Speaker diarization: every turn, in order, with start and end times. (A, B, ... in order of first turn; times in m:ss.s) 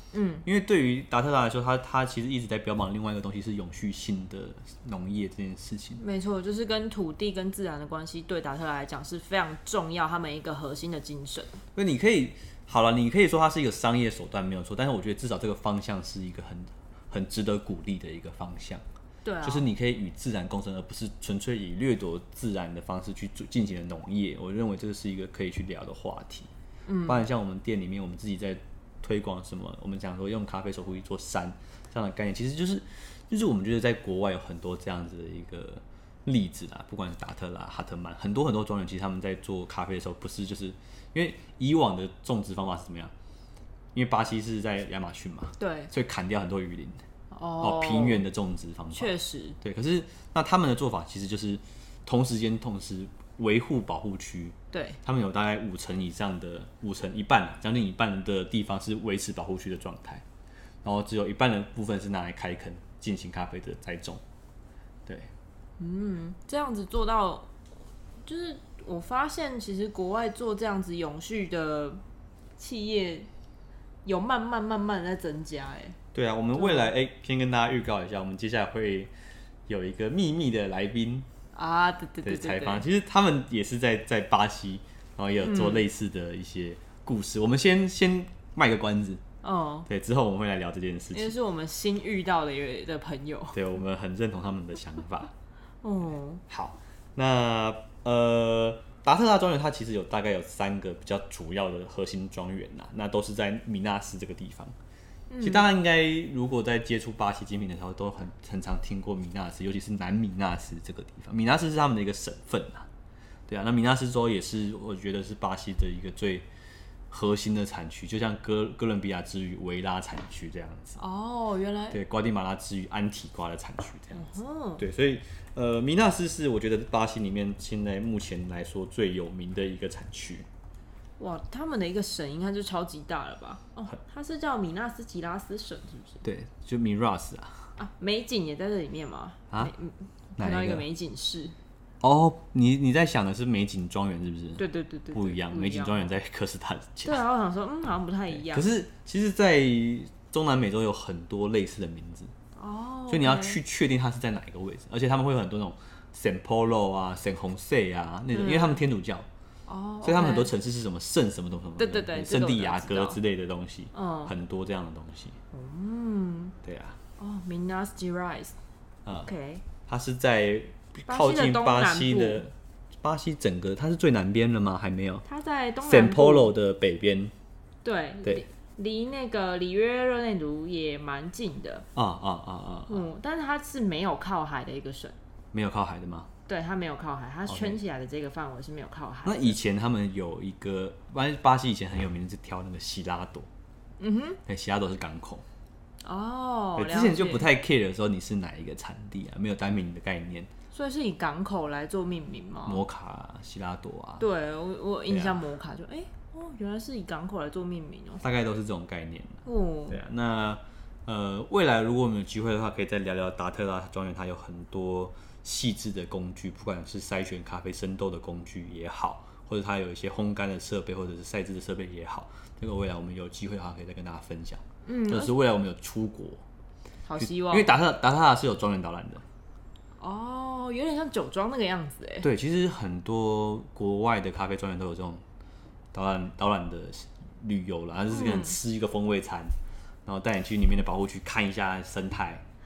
0:00.1-0:00.4 A
0:00.4-0:06.0 B
0:06.0-0:11.6 A
0:11.7-0:18.8 B
0:19.2-0:19.6 A
0:19.4-0:26.5 B
0:26.8-0:27.2 A
0:27.0-0:43.1 B
0:43.9-0:47.0 B
0:45.6-0:45.9 A
0:47.3-0:48.2 A
0:47.6-1:00.2 B
0:48.9-0:49.6 A
0:54.7-0:55.0 A
1:00.8-1:04.2 B
1:05.8-1:07.5 A
1:08.2-1:12.0 A
1:12.6-1:13.3 A
1:14.0-1:16.0 A
1:16.1-1:19.1 B
1:16.5-1:16.9 A
1:19.7-1:21.3 B
1:21.5-1:22.8 A
1:22.2-1:29.2 B
1:25.4-1:25.8 A
1:29.4-1:29.9 A
1:29.8-1:31.3 B
1:31.1-1:33.6 A
1:33.5-1:35.3 B
1:35.8-1:36.4 A
1:36.5-1:44.7 B
1:45.3-1:45.7 A
1:45.4-1:52.9 B
1:53.5-1:56.5 B
1:57.1-2:01.0 B
2:01.0-2:02.0 A
2:01.9-2:10.4 B
2:04.1-2:04.8 A
2:11.2-2:16.2 A
2:16.2-2:17.7 B
2:17.8-2:21.6 A
2:20.4-2:20.8 B
2:22.0-2:27.2 B
2:24.6-2:26.1 A
2:27.0-2:28.7 A
2:28.5-2:32.3 B
2:32.6-2:33.6 A
2:33.1-2:39.3 B
2:38.3-2:38.8 A
2:39.6-2:40.5 A
2:40.0-2:45.4 B
2:41.8-2:43.2 A
2:43.9-2:44.3 A
2:45.5-2:46.6 A
2:46.6-2:47.0 B
2:47.2-2:48.6 A
2:49.0-2:49.3 B
2:49.2-2:49.6 A
2:49.8-2:55.2 B
2:51.1-2:52.4 A
2:55.2-2:56.5 A
2:55.8-2:57.3 B
2:57.8-3:01.9 A
3:01.9-3:03.0 B
3:02.9-3:05.2 A
3:05.5-3:06.3 B
3:06.5-3:09.6 A
3:07.5-3:07.8 B
3:09.2-3:13.5 B
3:14.0-3:14.4 A
3:14.4-3:15.4 B
3:16.0-3:17.5 A
3:16.8-3:20.5 B
3:20.7-3:22.8 A
3:22.6-3:24.2 B
3:24.2-3:28.2 A
3:25.1-3:25.4 B
3:28.2-3:46.4 B
3:29.4-3:30.0 A
3:44.8-3:45.3 A
3:47.0-3:47.8 A
3:47.2-3:49.2 B
3:50.0-3:52.3 A
3:52.2-3:55.2 B
3:55.9-3:59.5 B
3:58.1-3:58.6 A
4:00.0-4:02.4 B